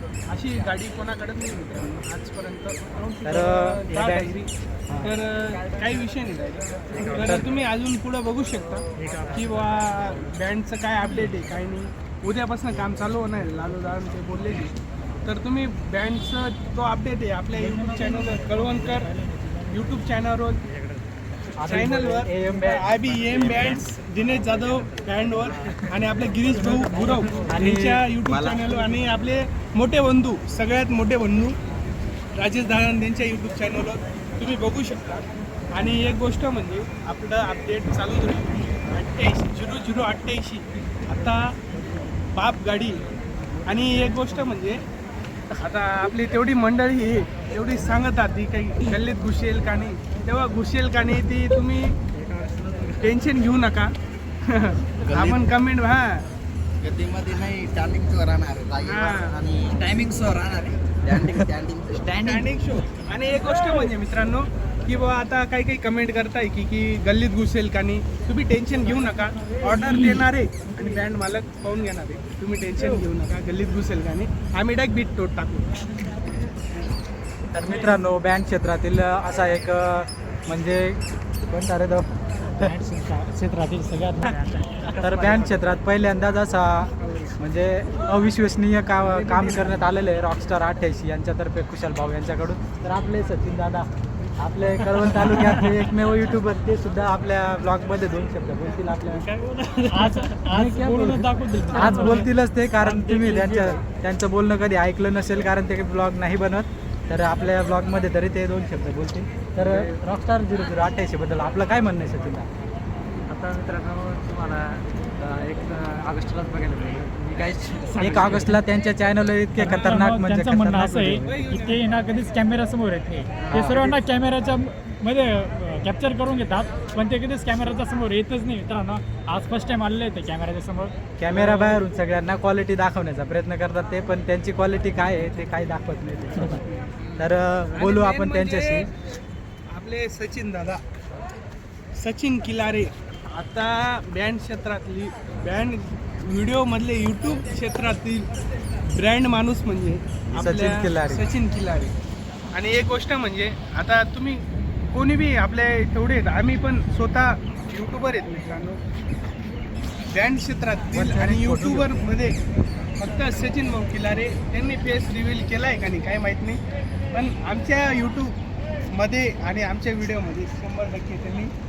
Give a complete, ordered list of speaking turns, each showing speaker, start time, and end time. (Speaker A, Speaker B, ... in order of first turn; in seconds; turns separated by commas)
Speaker A: 0.3-4.5, Speaker B: 3.2-5.1, Speaker A: 5.0-19.1, Speaker B: 7.1-7.5, Speaker C: 17.5-19.9, Speaker A: 19.7-20.6, Speaker B: 21.6-23.9, Speaker A: 21.7-31.6, Speaker C: 26.6-27.5, Speaker B: 27.5-28.0, Speaker D: 28.2-28.6, Speaker A: 32.4-41.4, Speaker A: 42.3-43.0, Speaker A: 43.6-44.8, Speaker A: 45.5-51.9, Speaker E: 52.5-52.9, Speaker A: 53.0-53.9, Speaker A: 54.5-56.2, Speaker D: 55.0-55.4, Speaker D: 56.8-62.5, Speaker A: 58.8-59.3, Speaker A: 62.2-75.7, Speaker B: 77.5-82.0, Speaker C: 82.6-85.3, Speaker B: 85.0-93.9, Speaker A: 87.0-87.3, Speaker A: 89.0-89.7, Speaker B: 94.4-99.2, Speaker C: 95.0-95.8, Speaker C: 99.3-102.3, Speaker E: 99.4-99.7, Speaker B: 100.5-112.5, Speaker C: 102.8-103.8, Speaker E: 113.3-117.4, Speaker B: 118.0-121.3, Speaker C: 119.6-130.9, Speaker A: 119.6-120.1, Speaker A: 121.2-121.9, Speaker B: 123.5-124.0, Speaker B: 131.2-136.6, Speaker B: 137.2-138.9, Speaker A: 137.7-138.9, Speaker A: 139.7-140.8, Speaker A: 142.0-148.3, Speaker A: 148.9-151.9, Speaker B: 150.3-151.2, Speaker A: 152.5-158.8, Speaker A: 160.1-162.4, Speaker B: 160.9-162.0, Speaker A: 163.0-166.6, Speaker A: 167.1-168.3, Speaker A: 168.9-171.5